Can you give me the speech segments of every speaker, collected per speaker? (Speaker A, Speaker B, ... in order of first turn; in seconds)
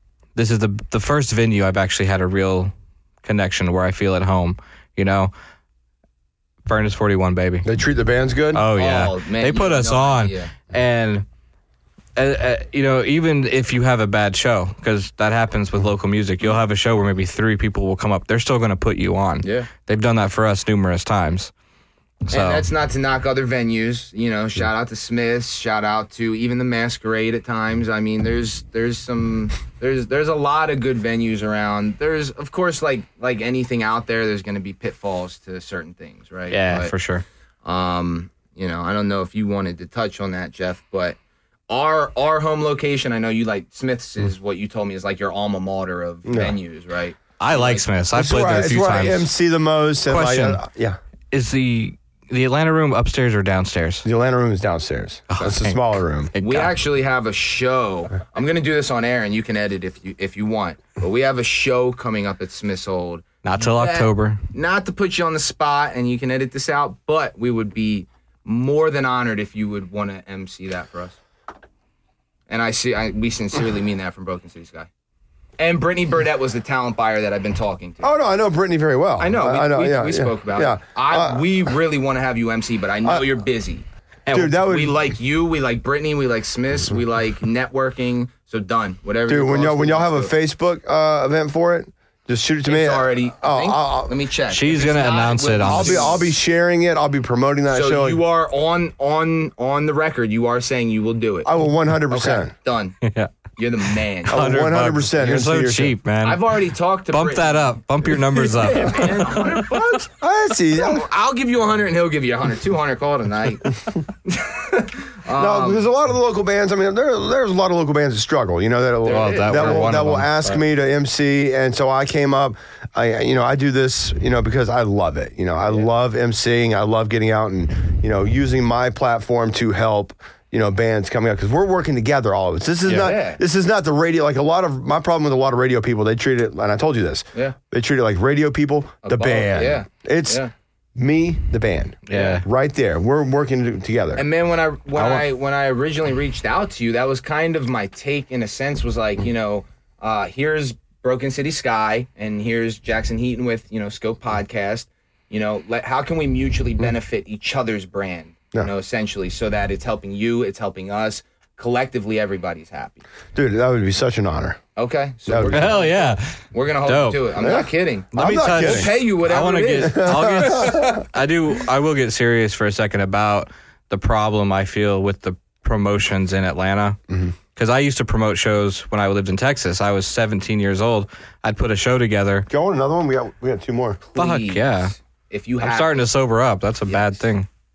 Speaker A: 0.4-5.3, 6.7-7.7, 8.5-11.3, 12.2-21.5, 22.3-22.6, 36.5-37.2, 47.4-49.3, 50.1-50.6, 51.3-54.0, 55.3-56.7, 63.4-64.4, 84.3-84.5, 94.5-96.2, 103.0-103.3, 104.2-109.8, 119.1-120.6, 142.1-142.4, 165.5-167.3, 168.1-177.0, 177.6-182.5, 184.2-184.9, 185.6-187.5
Speaker B: 7.7-8.7, 46.3-46.6, 48.1-51.0, 54.0-56.3, 78.0-81.5, 84.3-85.0, 89.3-94.2, 95.6-98.2, 101.5-102.5, 104.3-106.0, 110.2-111.0, 115.3-140.4, 141.0-144.2, 145.0-145.2, 163.3-164.6, 165.3-165.7, 167.4-168.9, 169.8-171.0, 182.5-184.0
Speaker C: 8.7-10.5, 19.4-19.7, 22.3-36.9, 37.6-41.2, 41.7-47.9, 56.4-71.2, 72.5-74.9, 75.6-78.1, 79.2-90.3, 92.7-96.3, 97.7-101.5, 102.1-103.0, 103.6-104.5, 106.2-110.1, 110.7-115.8, 119.0-120.0, 132.9-133.4, 139.0-140.5, 142.1-142.4, 144.2-163.0, 164.8-170.9, 184.1-186.1, 186.9-187.3